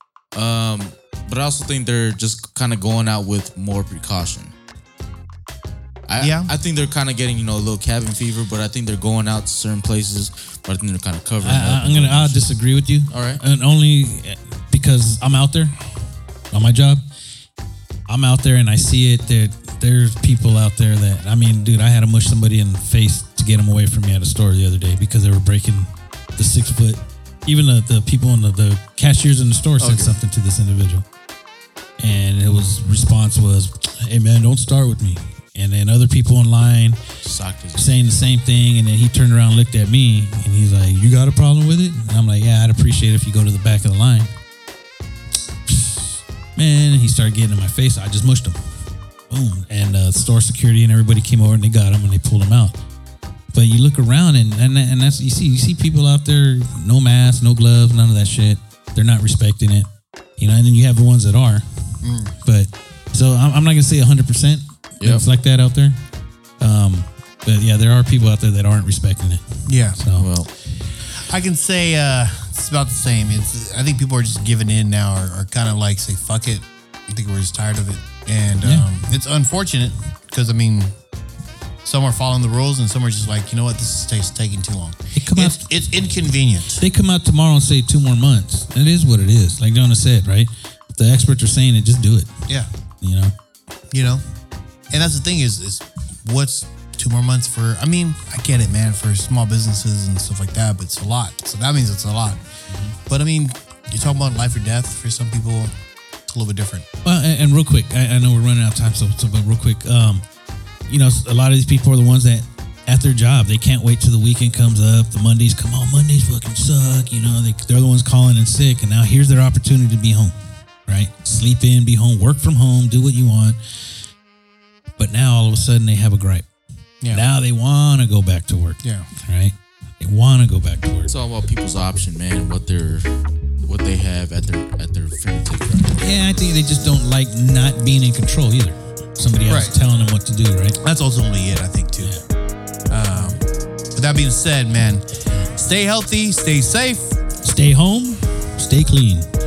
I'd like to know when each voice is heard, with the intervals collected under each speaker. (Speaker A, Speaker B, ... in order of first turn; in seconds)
Speaker A: 0.3-4.5, 6.1-12.6, 13.1-13.4, 29.8-30.2, 37.2-37.9, 65.0-65.2, 70.2-70.5, 131.1-133.1, 133.7-136.0
Speaker B: 6.2-6.5, 62.0-62.3, 69.7-70.0, 71.1-80.9, 81.8-86.8, 93.9-94.2, 94.9-102.4, 103.1-105.7, 106.2-106.8, 128.8-129.1, 139.5-139.7, 140.8-142.1, 142.9-143.4, 143.9-147.2
Speaker C: 11.4-15.8, 16.5-17.0, 18.1-31.0, 32.0-37.0, 37.8-44.3, 46.5-48.6, 49.3-52.8, 53.5-61.6, 62.4-66.0, 66.6-70.3, 78.6-78.9, 85.2-85.6, 86.8-92.3, 93.0-93.3, 107.0-110.2, 110.9-120.3, 120.9-123.6, 125.0-126.5, 127.1-131.1, 136.0-140.8, 147.4-149.2